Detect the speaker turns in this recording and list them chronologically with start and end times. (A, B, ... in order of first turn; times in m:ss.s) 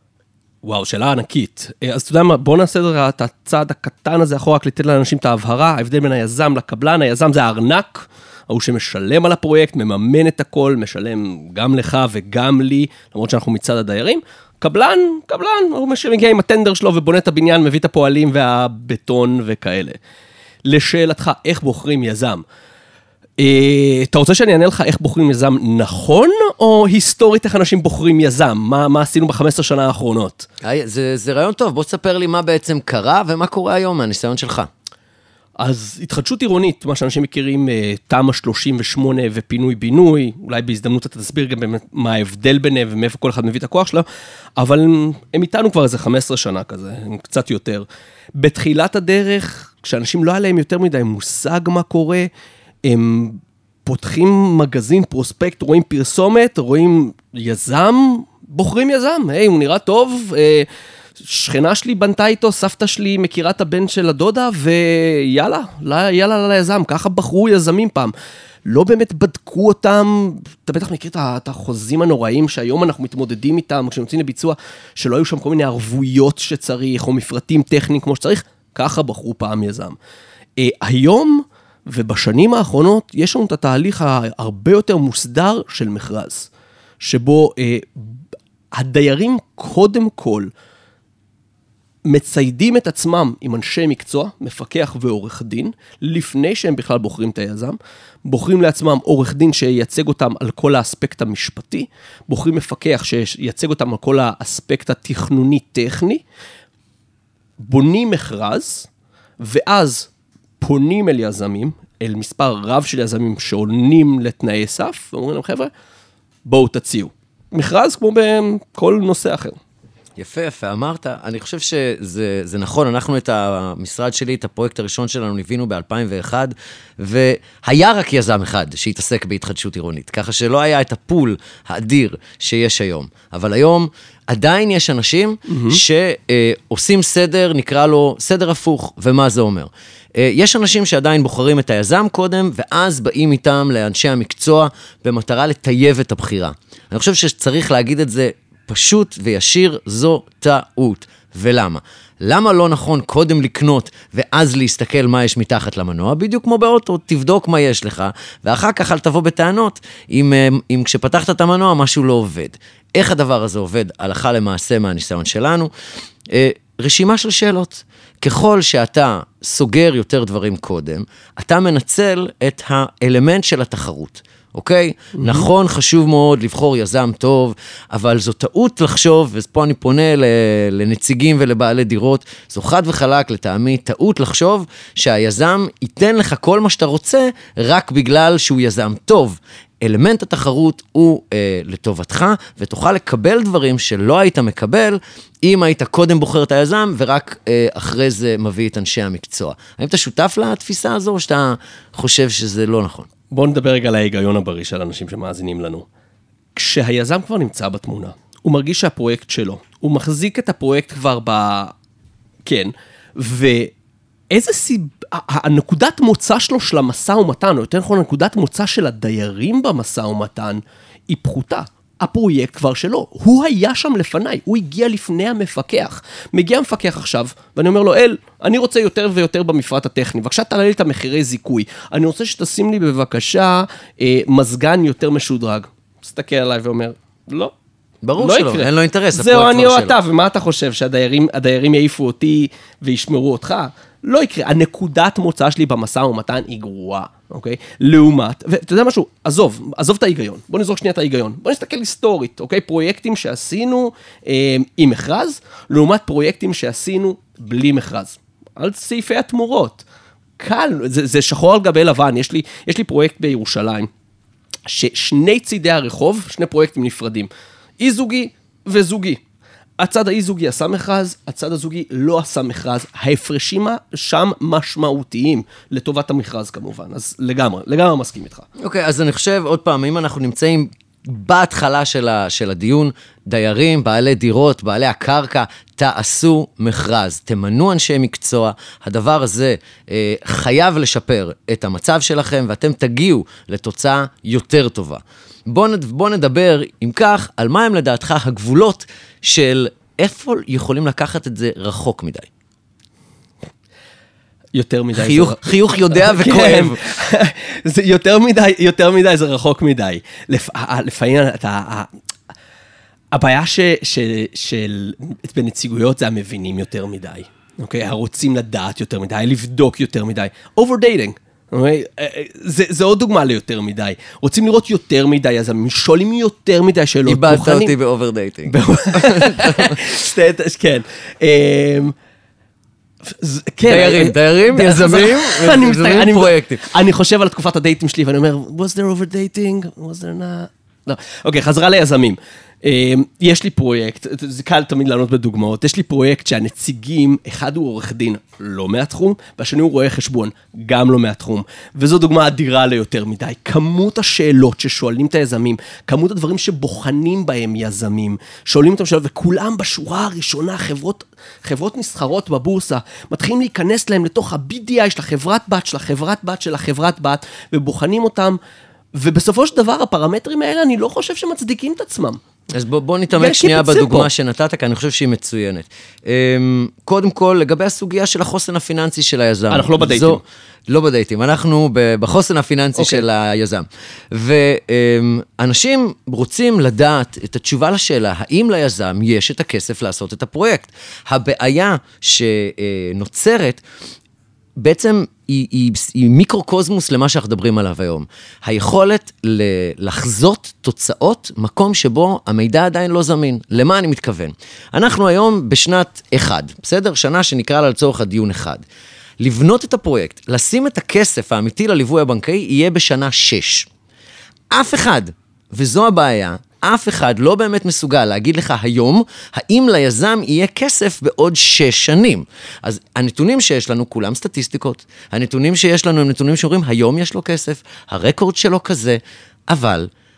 0:00.6-0:20.0 A
0:20.6-0:22.4 A
0:23.4-0:30.5 A
0:30.6-0:34.7 B
0:35.6-0:44.1 A
0:44.6-0:52.3 A
0:52.8-1:00.7 A
1:01.2-1:08.1 A
1:08.7-1:20.0 A
1:20.6-1:28.2 A
1:28.7-1:30.5 A
1:32.1-1:46.2 A
1:47.6-1:48.9 A
1:49.4-1:55.7 A
1:56.4-1:59.6 A
2:00.2-2:45.7 B
2:15.5-2:15.8 A
2:46.3-3:23.1 B
2:55.2-2:55.5 A
3:23.3-3:25.9 A
3:26.6-3:31.7 A
3:32.4-3:33.7 A
3:34.3-3:57.5 A
3:58.0-4:00.0 B
3:58.2-4:19.8 A
4:20.4-4:23.9 A
4:24.7-4:29.2 A
4:29.8-4:38.5 A
4:38.6-5:02.3 B
5:04.5-5:11.9 A
5:04.9-5:06.8 B
5:13.1-5:27.7 A
5:27.1-5:29.8 B
5:28.5-5:32.0 A
5:33.1-6:08.4 A
5:33.7-5:36.7 B
6:09.0-6:12.2 A
6:12.5-6:33.6 B
6:13.2-6:14.1 A
6:19.5-6:20.2 A
6:22.8-6:23.0 A
6:34.6-6:48.6 B
6:49.2-6:53.7 B
6:54.5-7:09.9 B